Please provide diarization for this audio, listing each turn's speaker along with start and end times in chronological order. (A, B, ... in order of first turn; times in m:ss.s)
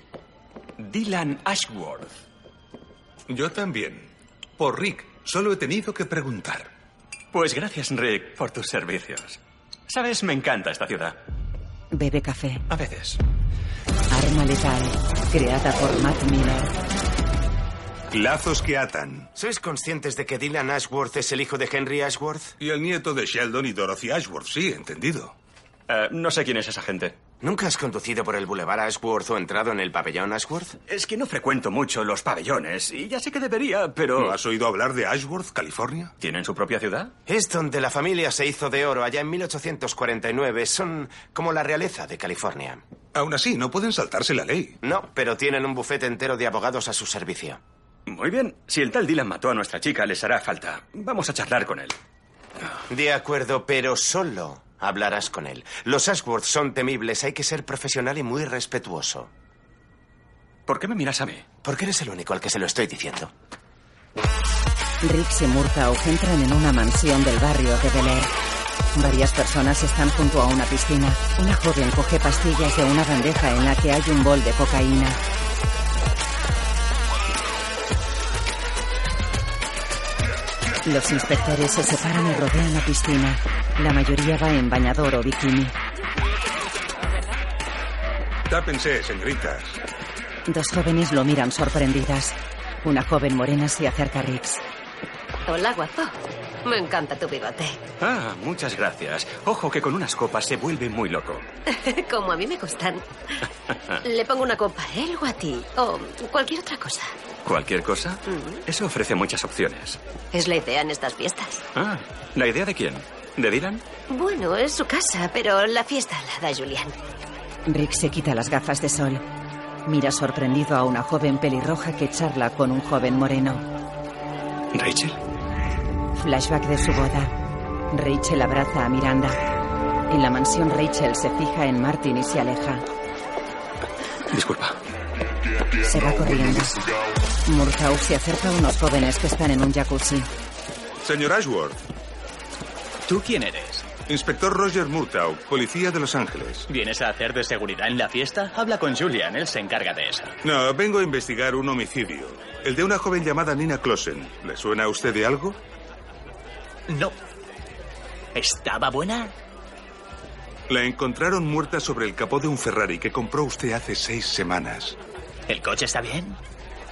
0:00.8-0:02.2 A
0:03.3-0:06.7 B
0:07.3-0:11.2 A
0:11.9-0:12.6 C
0:12.7-0:13.2 A
0:14.1-0:16.7 C
0:18.1-0:19.3 B
0:19.4-0:22.6 D
0:22.6-0:25.3 B
0:25.9-0:27.2 A
0:27.4-0:30.8 D
0:30.9-0:34.4 A
0:34.2-0:36.1 B
0:36.2-0:37.1 A
0:37.3-0:42.8 D
0:43.2-0:44.8 B
0:44.8-0:47.6 D
0:48.1-0:52.0 A
0:52.9-0:59.3 D
1:00.7-1:01.4 A
1:01.6-1:03.3 D
1:05.0-1:08.3 C
1:09.0-1:15.2 C
1:20.8-1:25.7 C
1:28.5-1:29.8 B
1:30.5-1:34.6 C
1:35.5-1:37.8 E
1:38.0-1:41.5 A
1:41.7-1:43.0 E
1:44.0-1:47.1 E
1:47.4-1:50.0 A
1:48.3-1:48.6 E
1:50.3-1:51.6 E
1:51.8-1:53.8 A
1:54.1-1:56.9 E
1:57.7-1:59.2 C
1:59.9-2:03.6 C
2:04.7-2:05.2 A
2:06.2-2:07.3 C
2:07.9-2:09.4 C
2:10.1-2:12.8 C
2:14.3-2:14.8 A
2:15.8-2:16.9 C
2:17.4-2:20.3 C
2:21.0-2:21.8 B
2:23.1-2:23.9 F
2:24.0-2:26.7 B
2:26.7-2:30.4 F
2:30.4-2:35.6 B
2:36.9-2:37.2 F
2:38.3-2:39.3 F
2:40.7-2:45.0 B
2:45.5-2:46.4 F